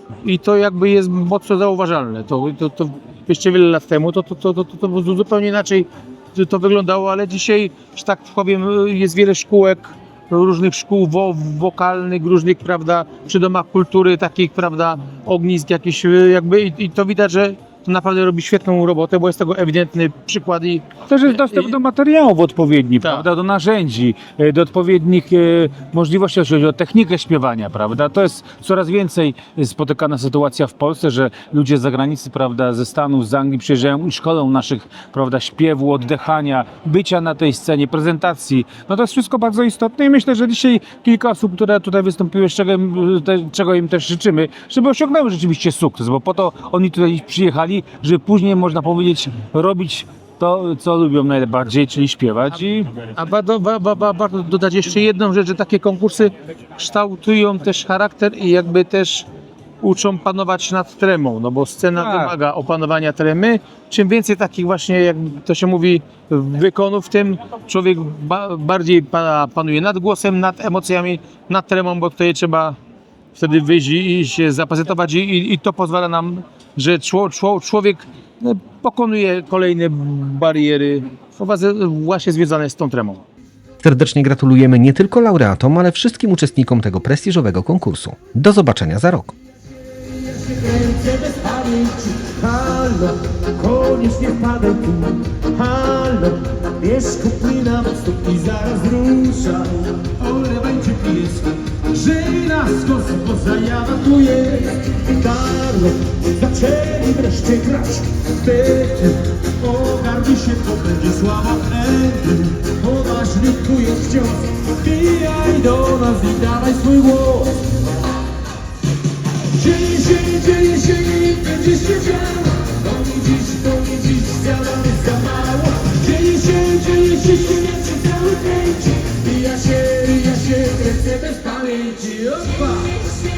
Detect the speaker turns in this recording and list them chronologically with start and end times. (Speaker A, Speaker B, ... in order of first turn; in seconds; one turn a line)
Speaker A: 0.2-21.7
Speaker B: 21.1-53.0
Speaker A: 23.0-23.3
Speaker A: 53.1-59.3
Speaker A: 59.8-72.8
Speaker B: 62.0-62.3
Speaker A: 73.3-83.2
Speaker C: 83.8-89.3
Speaker A: 90.4-91.5
Speaker A: 93.5-94.5
Speaker D: 95.6-96.0
Speaker A: 95.8-96.3
Speaker D: 96.8-97.2
Speaker D: 97.9-99.7
Speaker A: 100.3-101.4
Speaker A: 102.0-104.3
Speaker E: 104.8-105.7
Speaker D: 106.4-107.1
Speaker E: 107.7-109.1
Speaker E: 109.6-117.6
Speaker A: 109.9-110.2
Speaker E: 119.6-132.9